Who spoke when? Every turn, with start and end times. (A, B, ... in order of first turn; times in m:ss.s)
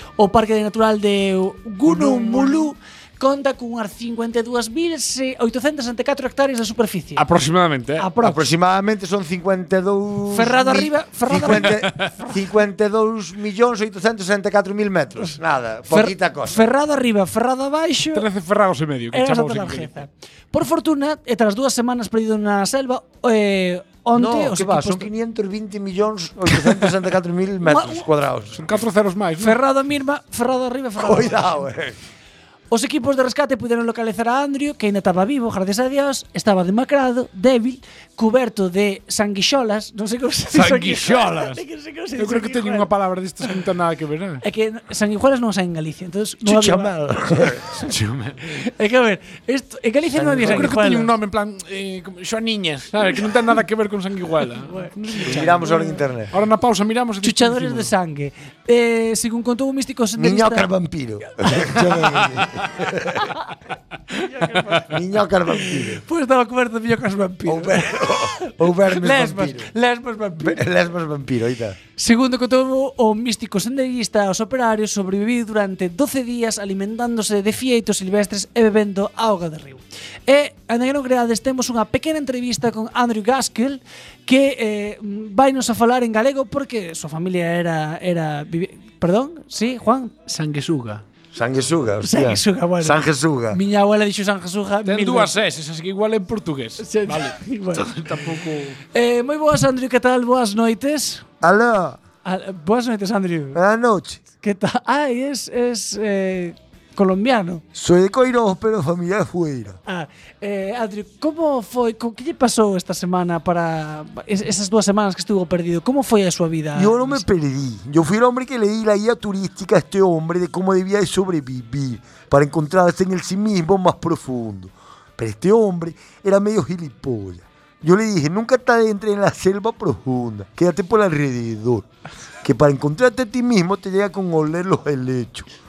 0:00.2-0:07.2 A
0:01.8-0:02.7 B
0:07.2-0:08.1 C
0:08.0-0:08.4 A
0:08.2-0:16.6 B
0:10.3-0:12.4 A
0:11.5-0:12.1 C
0:15.9-0:18.2 A
0:18.1-0:19.9 C
0:19.1-0:25.1 A
0:24.1-0:28.7 B
0:27.6-0:28.0 A
0:28.5-0:29.6 C
0:29.4-0:31.7 A
0:31.0-0:32.0 B
0:32.7-0:42.9 A
0:40.5-0:41.6 C
0:42.2-0:44.4 C
0:44.4-0:47.9 A
0:46.4-0:47.6 B
0:47.7-0:48.6 C
0:48.5-0:51.1 A
0:50.1-0:50.6 B
0:50.4-0:57.9 C
0:54.6-0:55.8 A
0:55.2-0:56.3 B
0:57.2-1:00.7 A
1:00.2-1:03.3 B
1:04.1-1:04.9 A
1:04.9-1:06.0 B
1:05.6-1:10.6 A
1:07.4-1:09.7 B
1:10.4-1:11.8 B
1:12.0-1:30.2 A
1:30.3-1:31.0 C
1:31.3-1:33.6 B
1:32.0-1:35.3 A
1:34.8-1:38.8 C
1:36.8-1:38.2 A
1:38.9-1:41.2 A
1:41.4-1:42.0 B
1:42.2-1:43.6 A
1:43.5-1:44.2 B
1:44.4-1:47.6 A
1:47.7-1:49.8 B
1:49.9-1:57.3 A
1:56.7-2:11.9 B
2:12.4-2:15.5 B